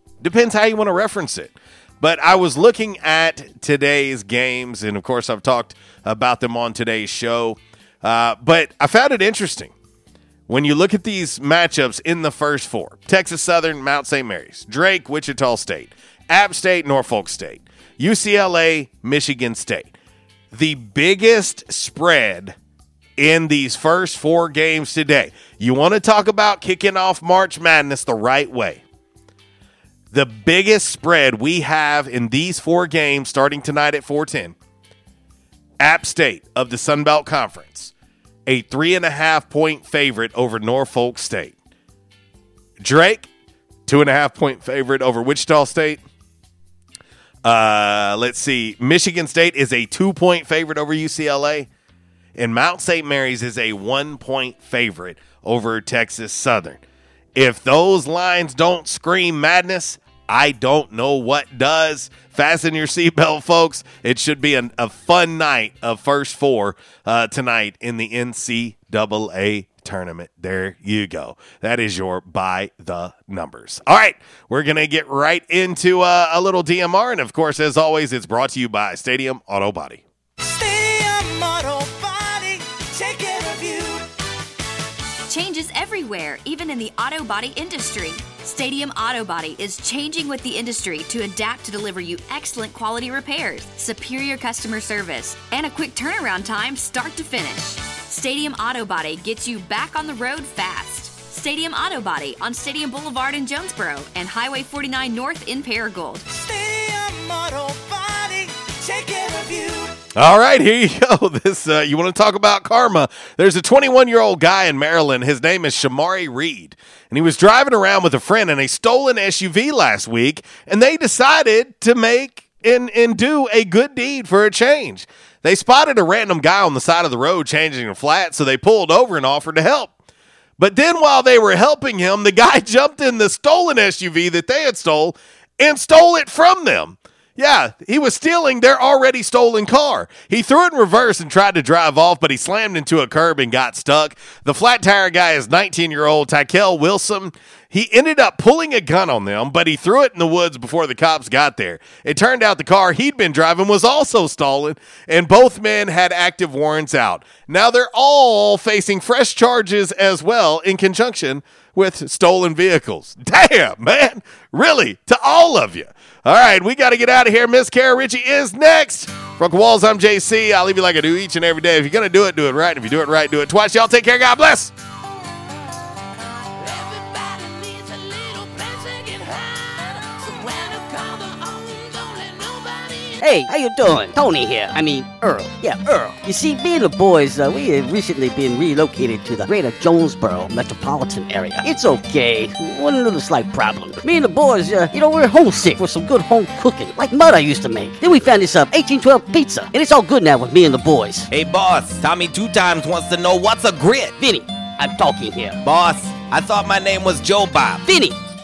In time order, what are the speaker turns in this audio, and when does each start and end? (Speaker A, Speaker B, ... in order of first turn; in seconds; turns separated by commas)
Speaker A: 0.2-9.7, Speaker A: 10.5-19.9, Speaker A: 20.5-22.6, Speaker A: 23.2-28.8, Speaker A: 30.1-34.6, Speaker A: 35.8-37.9, Speaker A: 38.5-41.6, Speaker A: 42.8-43.3, Speaker A: 43.9-46.0, Speaker A: 47.4-51.7, Speaker A: 52.4-56.8, Speaker A: 57.4-80.0, Speaker B: 80.4-84.1, Speaker C: 85.3-106.2, Speaker B: 106.3-109.9, Speaker A: 110.2-129.9, Speaker A: 130.6-174.7, Speaker D: 183.2-201.3, Speaker E: 201.3-204.2, Speaker D: 204.2-205.6, Speaker E: 205.6-207.8, Speaker D: 207.8-208.2